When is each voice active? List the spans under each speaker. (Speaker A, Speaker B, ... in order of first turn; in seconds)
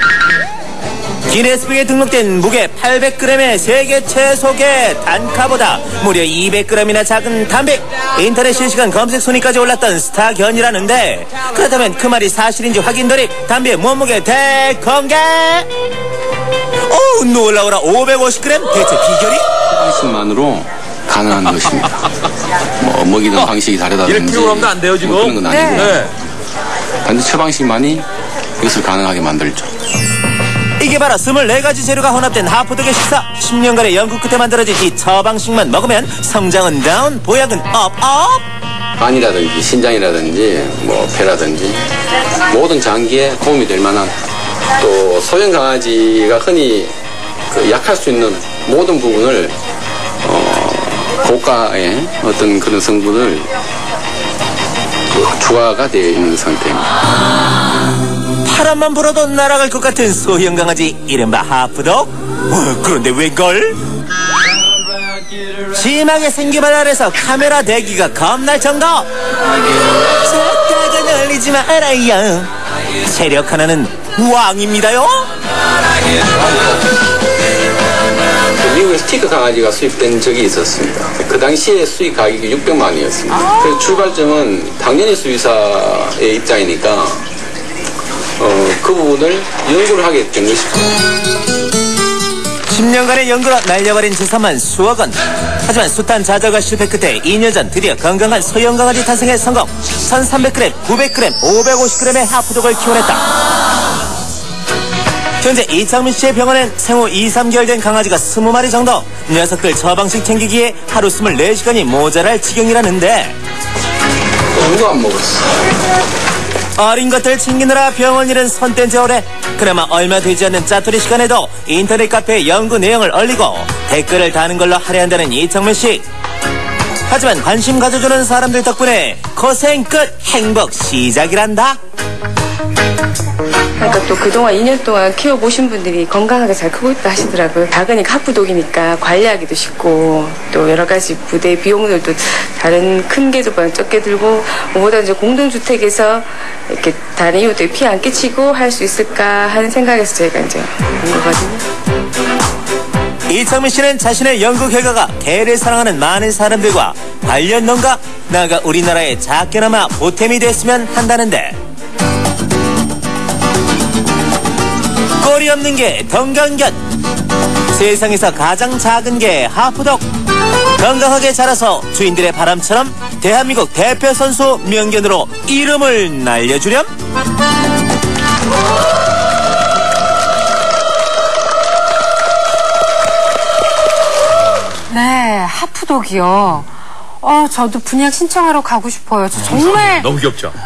Speaker A: 1.3-15.7, 16.9-19.4, 30.8-38.4, 58.4-63.8, 65.7-69.1, 70.2-72.5, 73.0-75.2, 92.7-103.2, 105.4-113.3, 116.8-126.0, 127.1-131.8, 153.3-161.6, 165.2-166.8, 167.7-170.0, 170.8-176.9
Speaker B: 19.7-22.1, 22.8-26.1, 27.0-28.1, 28.6-29.7, 39.0-41.8, 42.5-44.1, 44.8-46.9, 47.5-49.6, 50.2-53.5, 55.1-56.9, 78.6-87.2, 88.4-91.0, 114.5-115.7
Speaker C: 24.1-26.1, 189.5-190.5
Speaker D: 25.5-25.9, 184.9-190.2
Speaker E: 133.8-151.6